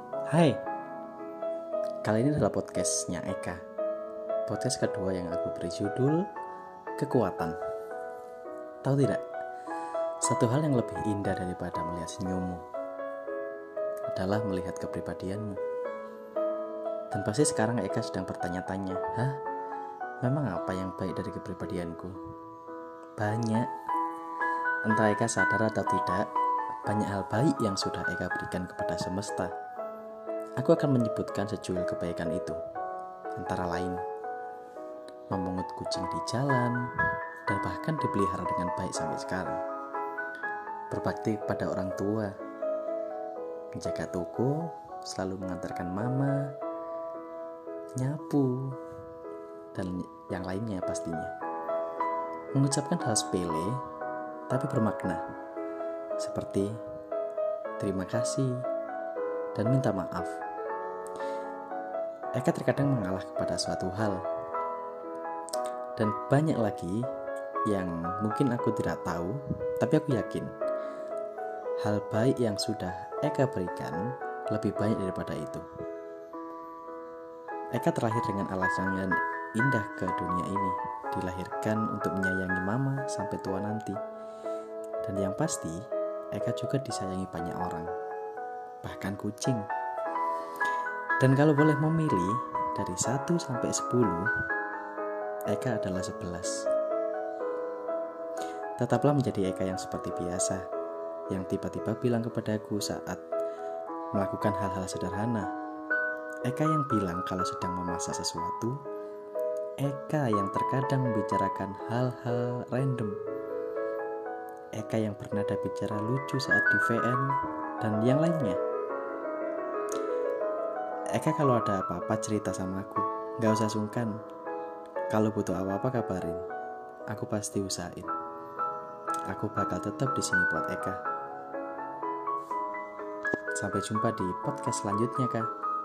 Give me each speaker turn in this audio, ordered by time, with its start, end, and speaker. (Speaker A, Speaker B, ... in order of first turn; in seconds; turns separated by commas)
Speaker A: 0.3-0.6, Speaker A: 2.0-3.6, Speaker A: 4.5-6.3, Speaker A: 7.0-7.6, Speaker A: 8.8-9.2, Speaker A: 10.2-12.6, Speaker A: 14.1-15.6, Speaker A: 17.1-19.4, Speaker A: 20.2-22.2, Speaker A: 23.2-23.7, Speaker A: 24.9-26.3, Speaker A: 26.9-29.5, Speaker A: 30.6-32.6, Speaker A: 33.4-34.0, Speaker A: 35.3-36.8, Speaker A: 37.5-39.6, Speaker A: 40.9-42.3, Speaker A: 43.8-46.5, Speaker A: 48.0-48.8, Speaker A: 49.7-51.3, Speaker A: 52.5-53.8, Speaker A: 54.5-55.2, Speaker A: 56.2-56.8, Speaker A: 57.8-58.6, Speaker A: 59.5-60.4, Speaker A: 62.4-64.2, Speaker A: 66.0-67.1, Speaker A: 67.7-70.5, Speaker A: 71.8-75.7, Speaker A: 77.7-84.0, Speaker A: 85.0-87.9, Speaker A: 88.8-89.7, Speaker A: 91.2-94.3, Speaker A: 95.5-96.6, Speaker A: 98.8-100.6, Speaker A: 101.3-103.2, Speaker A: 104.1-105.5, Speaker A: 106.5-108.8, Speaker A: 109.8-113.2, Speaker A: 114.8-118.6, Speaker A: 121.1-124.2, Speaker A: 125.1-126.5, Speaker A: 127.1-128.1, Speaker A: 129.3-131.0, Speaker A: 133.6-135.5